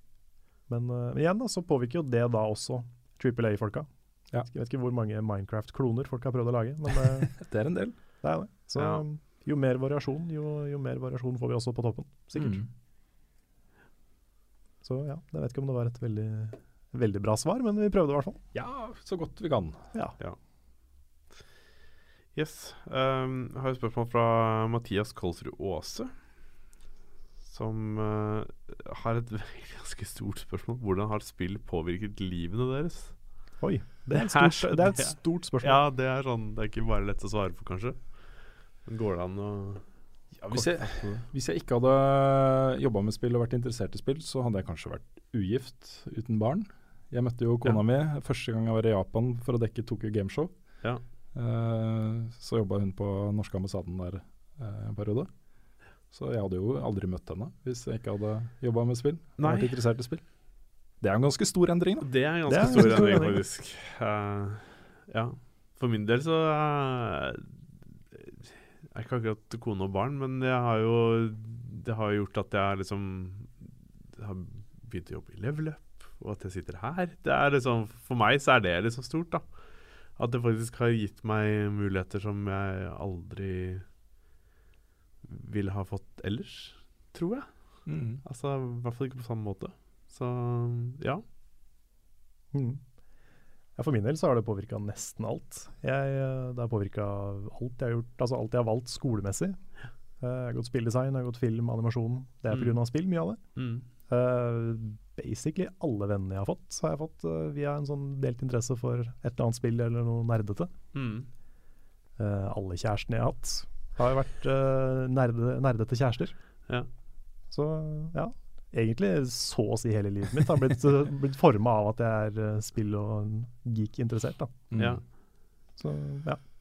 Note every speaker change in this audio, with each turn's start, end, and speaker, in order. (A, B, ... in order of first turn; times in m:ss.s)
0:00.7-0:07.5 A
0:07.3-0:08.0 B
0:08.2-0:12.6 A
0:08.8-0:09.0 C
0:12.3-0:12.7 B
0:14.8-0:18.4 A
0:18.5-0:19.8 B
0:22.3-0:26.3 C
0:27.4-0:33.6 C
0:33.6-0:35.8 A
0:34.1-0:39.9 C
0:40.3-0:50.5 B
0:40.6-0:41.1 C
0:51.3-0:55.3 B
0:56.1-1:00.3 B
0:59.4-0:59.7 C
1:01.0-1:03.1 B
1:02.0-1:23.9 C
1:02.5-1:03.4 A
1:25.2-1:31.2 C
1:27.8-1:28.2 B
1:32.5-1:32.8 A
1:33.8-1:39.7 A
1:40.2-1:50.7 A
1:42.5-1:42.8 C
1:43.5-1:43.8 C
1:50.9-1:51.3 C
1:52.2-1:56.4 A
1:57.5-2:04.6 A
2:04.7-2:05.0 B
2:04.8-2:05.0 C
2:05.7-2:06.4 A